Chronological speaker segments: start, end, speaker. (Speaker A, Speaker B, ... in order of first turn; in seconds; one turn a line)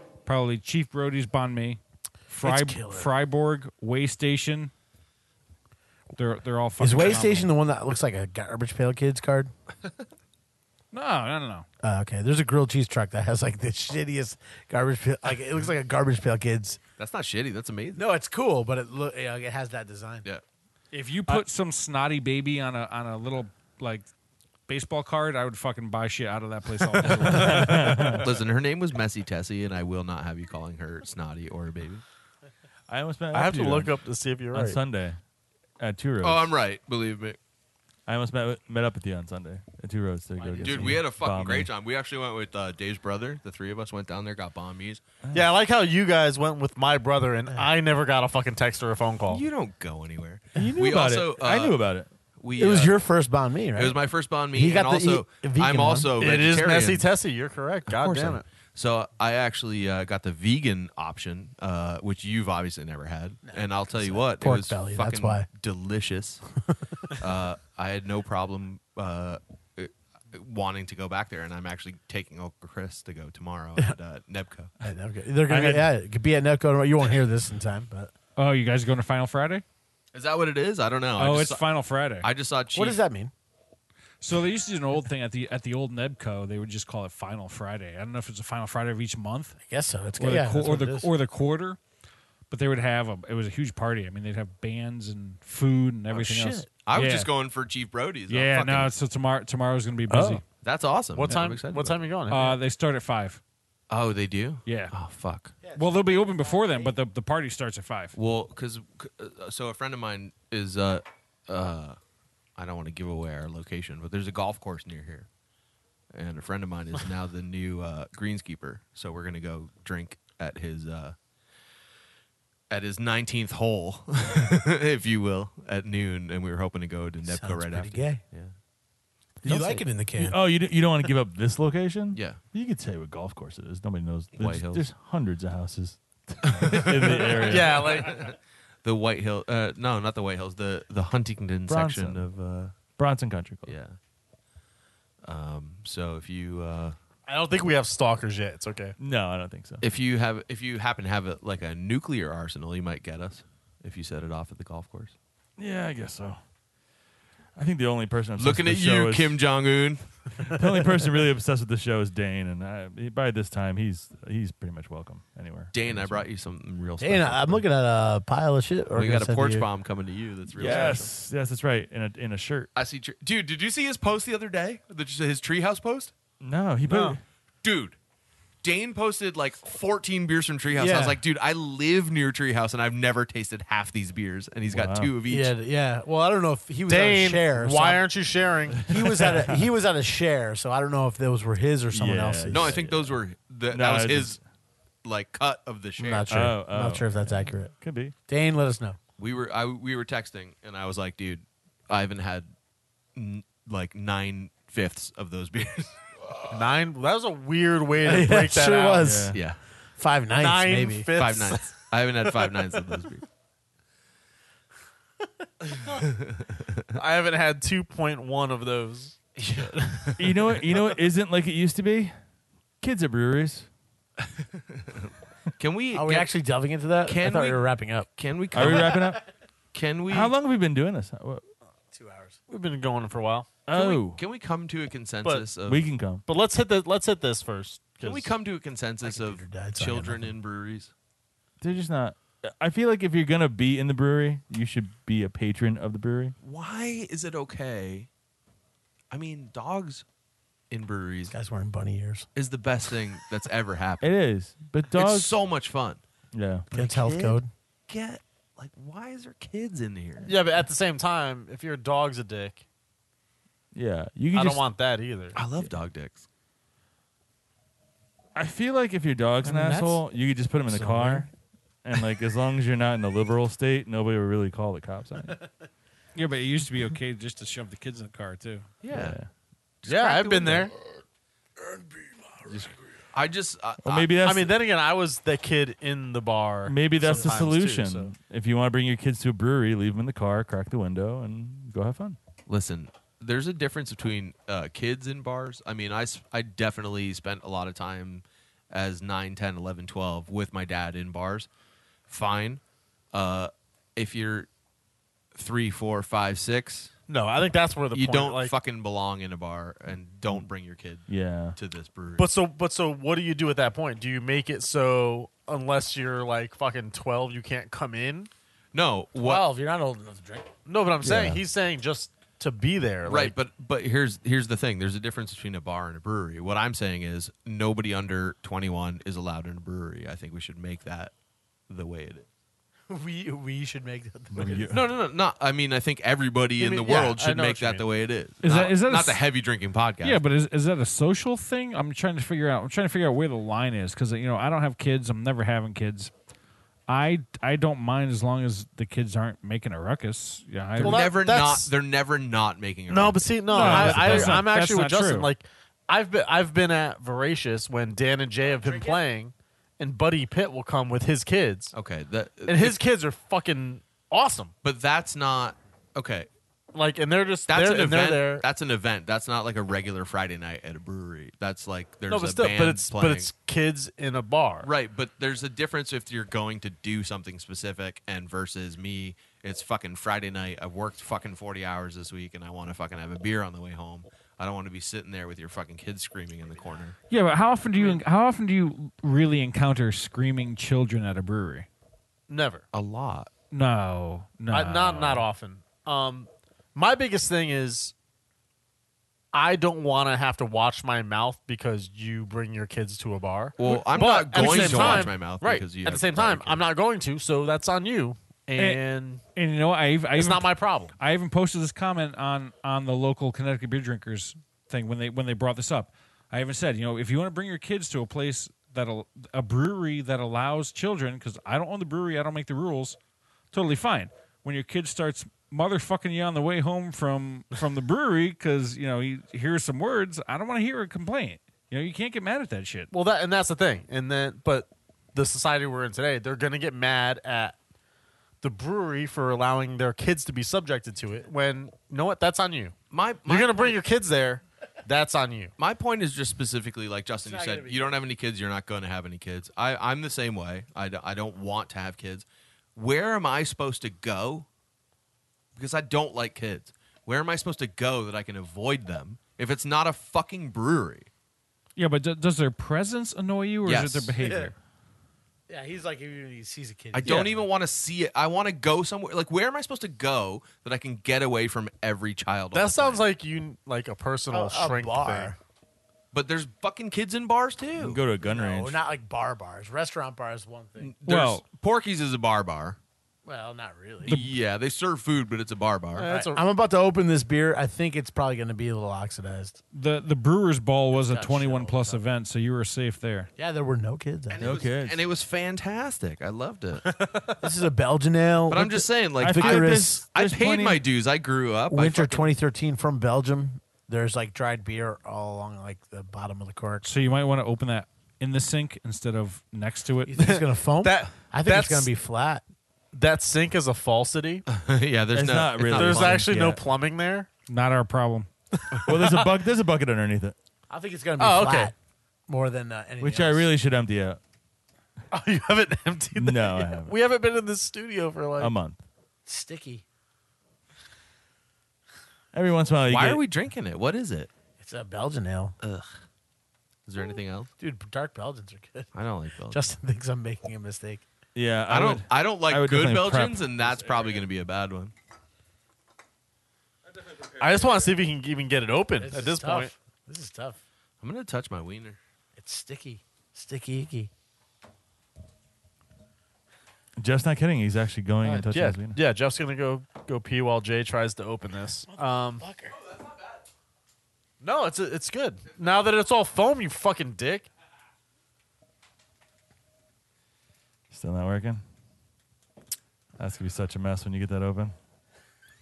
Speaker A: 0.2-4.7
Speaker B: 2.4-3.1
Speaker A: 6.2-7.5
Speaker B: 6.8-9.5
Speaker A: 10.9-11.7
Speaker B: 11.8-16.8
Speaker C: 17.0-18.0
Speaker B: 17.9-20.2
Speaker A: 20.9-24.1
Speaker A: 24.7-28.2
Speaker D: 27.2-28.2
Speaker C: 28.2-32.0
Speaker D: 32.9-33.9
Speaker E: 33.3-34.8
Speaker D: 34.5-35.2
Speaker D: 35.8-36.5
Speaker C: 36.2-37.4
Speaker D: 38.1-41.7
Speaker B: 40.4-41.0
Speaker C: 40.6-45.0
Speaker E: 45.3-49.4
Speaker C: 49.3-51.8
Speaker D: 50.5-52.1
Speaker C: 52.4-52.9
Speaker B: 52.5-54.0
Speaker C: 53.7-57.1
Speaker B: 54.5-56.1
Speaker E: 56.2-58.4
Speaker C: 57.9-66.4
Speaker B: 63.4-65.5
Speaker C: 67.1-74.7
Speaker B: 74.8-78.1
Speaker D: 75.5-75.8
Speaker A: 78.3-79.6
Speaker C: 80.1-81.6
Speaker A: 81.2-82.3
Speaker C: 82.2-83.0
Speaker B: 82.7-83.3
Speaker A: 84.2-89.6
Speaker B: 89.7-91.1
Speaker A: 90.2-91.8
Speaker A: 92.5-97.3
Speaker C: 96.1-98.9
Speaker A: 98.3-100.4
Speaker D: 100.1-100.4
Speaker C: 100.6-102.1
Speaker E: 101.1-102.6
Speaker A: 102.3-103.4
Speaker C: 103.9-105.6
Speaker A: 104.7-104.9
Speaker B: 105.6-107.0
Speaker A: 105.7-108.2
Speaker C: 108.2-112.0
Speaker C: 112.5-115.3
Speaker C: 116.1-121.2
Speaker C: 122.7-128.5
Speaker B: 127.2-128.2
Speaker B: 129.4-130.4
Speaker D: 129.4-137.9
Speaker C: 132.1-132.4
Speaker C: 134.3-134.9
Speaker C: 136.4-142.7
Speaker E: 137.4-138.2
Speaker D: 141.7-142.3
Speaker D: 142.9-143.8
Speaker C: 143.7-144.0
Speaker C: 145.2-146.9
Speaker E: 147.3-148.9
Speaker D: 149.0-149.8
Speaker C: 149.8-155.2
Speaker D: 155.6-156.4
Speaker D: 157.6-159.4
Speaker C: 158.4-160.5
Speaker D: 160.4-166.2
Speaker C: 165.7-167.6
Speaker B: 167.0-169.7
Speaker C: 168.9-171.1
Speaker D: 170.5-172.7
Speaker C: 172.7-176.1
Speaker D: 176.4-177.2
Speaker E: 176.9-177.2
Speaker C: 177.6-177.9
Speaker C: 178.6-185.5
Speaker B: 180.7-181.2
Speaker D: 184.7-185.1
Speaker B: 185.3-188.1
Speaker E: 186.9-188.9
Speaker B: 188.8-192.8
Speaker D: 188.8-189.6
Speaker D: 191.9-193.1
Speaker C: 192.5-194.4
Speaker D: 193.7-194.4
Speaker C: 195.0-196.3
Speaker B: 196.0-197.7
Speaker D: 196.3-198.1
Speaker B: 198.3-199.0
Speaker C: 199.2-202.5
Speaker C: 203.1-206.0
Speaker E: 206.5-209.1
Speaker B: 208.0-209.4
Speaker D: 209.0-209.4
Speaker C: 209.3-209.6
Speaker B: 210.0-211.1
Speaker E: 210.3-212.8
Speaker C: 211.1-213.2
Speaker C: 215.8-216.8
Speaker E: 216.9-219.2
Speaker C: 219.4-220.3
Speaker D: 220.2-222.1
Speaker D: 222.8-223.7
Speaker C: 224.7-226.3
Speaker B: 225.9-228.1
Speaker C: 227.0-229.0
Speaker D: 228.5-229.2
Speaker B: 228.7-229.2
Speaker C: 229.7-230.3
Speaker D: 230.1-231.4
Speaker B: 231.9-232.4
Speaker E: 232.5-233.5
Speaker D: 233.7-234.2
Speaker C: 233.7-235.9
Speaker D: 235.7-236.2
Speaker E: 236.2-238.3
Speaker C: 238.0-240.9
Speaker B: 239.0-240.3
Speaker D: 241.6-246.3
Speaker C: 246.4-248.1
Speaker C: 249.1-250.0
Speaker C: 250.7-251.3
Speaker B: 251.3-252.3
Speaker C: 252.3-254.1
Speaker D: 254.0-255.4
Speaker C: 254.9-256.0
Speaker D: 256.3-256.6
Speaker C: 256.7-260.3
Speaker B: 256.7-257.5
Speaker E: 260.2-262.6
Speaker D: 263.7-264.6
Speaker E: 264.3-265.4
Speaker C: 265.3-266.2
Speaker D: 268.3-271.3
Speaker B: 269.5-270.0
Speaker B: 270.7-271.2
Speaker D: 271.8-275.4
Speaker A: 276.1-278.7
Speaker C: 278.8-279.2
Speaker D: 278.9-279.3
Speaker C: 279.8-280.7
Speaker E: 279.9-280.7
Speaker B: 281.6-282.3
Speaker C: 282.5-284.2
Speaker D: 283.8-284.5
Speaker E: 284.2-288.1
Speaker D: 286.6-292.2
Speaker C: 292.5-301.5
Speaker C: 302.1-302.6
Speaker C: 303.1-304.5
Speaker C: 305.3-306.9
Speaker E: 307.1-308.5
Speaker C: 307.9-312.3
Speaker D: 311.1-311.6
Speaker E: 312.2-318.3
Speaker C: 318.7-319.4
Speaker B: 319.2-320.5
Speaker E: 320.6-323.3
Speaker D: 321.0-321.4
Speaker C: 323.0-331.1
Speaker C: 331.7-332.3
Speaker B: 332.9-334.7
Speaker D: 334.3-334.9
Speaker C: 334.7-340.2
Speaker E: 336.6-337.8
Speaker A: 338.4-339.2
Speaker A: 340.0-346.1
Speaker A: 346.9-351.1
Speaker C: 350.8-354.5
Speaker E: 350.8-351.7
Speaker E: 352.9-361.7
Speaker A: 353.5-355.3
Speaker B: 358.5-359.0
Speaker C: 361.7-362.8
Speaker E: 362.4-364.5
Speaker C: 364.6-366.3
Speaker E: 366.7-368.4
Speaker C: 367.5-373.3
Speaker E: 372.1-374.7
Speaker C: 374.6-386.9
Speaker A: 387.1-391.7
Speaker E: 392.3-392.6
Speaker C: 392.7-393.3
Speaker A: 393.5-395.3
Speaker E: 394.5-397.9
Speaker E: 399.3-409.2
Speaker C: 403.6-406.6
Speaker A: 404.3-405.1
Speaker A: 408.6-408.8
Speaker A: 409.3-423.0
Speaker E: 410.1-411.0
Speaker A: 423.5-432.9
Speaker E: 432.9-437.6
Speaker E: 438.4-442.8
Speaker C: 442.9-443.8
Speaker E: 443.3-445.5
Speaker C: 445.6-452.2
Speaker B: 447.2-448.0
Speaker C: 452.8-454.5
Speaker C: 455.6-461.1
Speaker A: 461.8-464.6
Speaker C: 463.6-464.1
Speaker B: 464.2-464.5
Speaker B: 465.5-467.4
Speaker C: 466.9-473.1
Speaker E: 472.5-475.3
Speaker B: 474.3-475.4
Speaker C: 476.1-478.0
Speaker D: 477.8-478.8
Speaker B: 478.2-480.9
Speaker C: 480.8-482.8
Speaker A: 481.1-481.4
Speaker B: 483.2-484.2
Speaker C: 484.0-486.1
Speaker E: 485.9-486.4
Speaker B: 486.1-489.6
Speaker A: 489.7-493.3
Speaker B: 490.9-492.0
Speaker B: 493.4-494.6
Speaker C: 494.3-497.0
Speaker D: 494.4-495.0
Speaker B: 497.4-500.0
Speaker C: 498.5-502.3
Speaker D: 499.2-500.8
Speaker B: 501.7-506.9
Speaker A: 506.8-510.2
Speaker B: 510.0-512.4
Speaker E: 510.2-511.9
Speaker E: 512.9-514.4
Speaker C: 514.5-516.3
Speaker D: 515.1-516.6
Speaker E: 515.7-517.3
Speaker A: 517.5-518.3
Speaker E: 518.5-519.2
Speaker D: 518.8-520.4
Speaker B: 520.7-521.7
Speaker E: 521.2-521.7
Speaker B: 522.3-523.5
Speaker D: 523.0-524.2
Speaker E: 525.1-528.5
Speaker D: 526.1-526.9
Speaker D: 528.4-528.8
Speaker B: 529.2-529.8
Speaker D: 532.3-533.2
Speaker C: 532.9-534.3
Speaker B: 534.6-535.5
Speaker C: 535.6-535.9
Speaker C: 536.9-537.5
Speaker B: 537.6-538.9
Speaker C: 538.9-539.7
Speaker B: 539.5-541.0
Speaker D: 541.3-544.2
Speaker C: 541.7-544.9
Speaker E: 547.3-549.7
Speaker B: 549.0-550.6
Speaker C: 551.0-552.0
Speaker B: 552.4-554.1
Speaker D: 557.0-559.0
Speaker E: 558.2-562.5
Speaker B: 561.9-562.8
Speaker E: 564.4-567.5
Speaker D: 570.9-571.6
Speaker D: 573.2-574.7